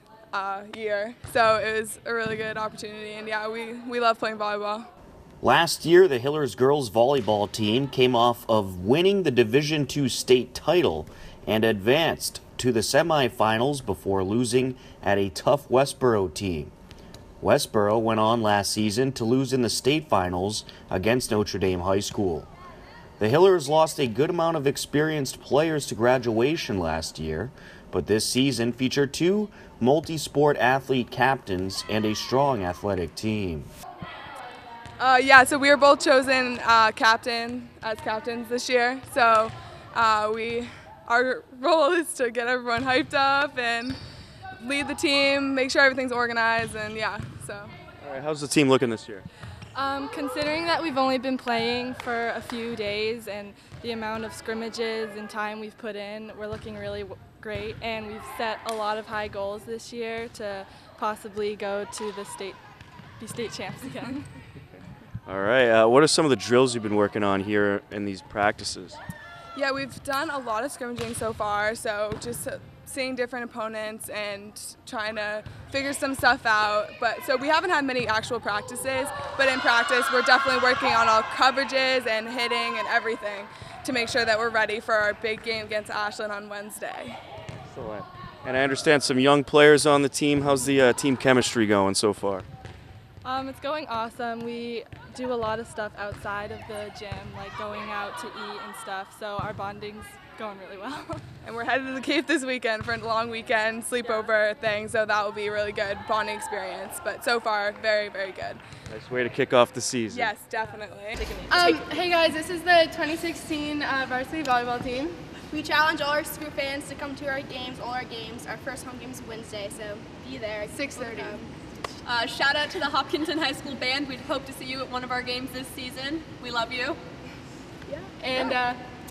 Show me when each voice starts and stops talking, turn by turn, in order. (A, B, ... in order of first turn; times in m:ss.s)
0:00.3-0:04.9 A
0:05.4-0:16.7 B
0:17.4-0:22.5 B
0:23.2-0:33.7 B
0:35.0-0:44.0 A
0:44.6-0:47.7 A
0:48.0-0:49.2 C
0:49.7-1:02.6 D
1:03.2-1:04.3 D
1:05.3-1:09.0 C
1:09.5-1:27.2 A
1:27.7-1:32.4 C
1:33.2-1:41.2 D
1:41.4-1:48.6 A
1:48.9-1:50.3 C
1:50.1-1:51.4 A
1:51.5-2:01.5 E
2:02.1-2:07.0 F
2:07.9-2:08.8 E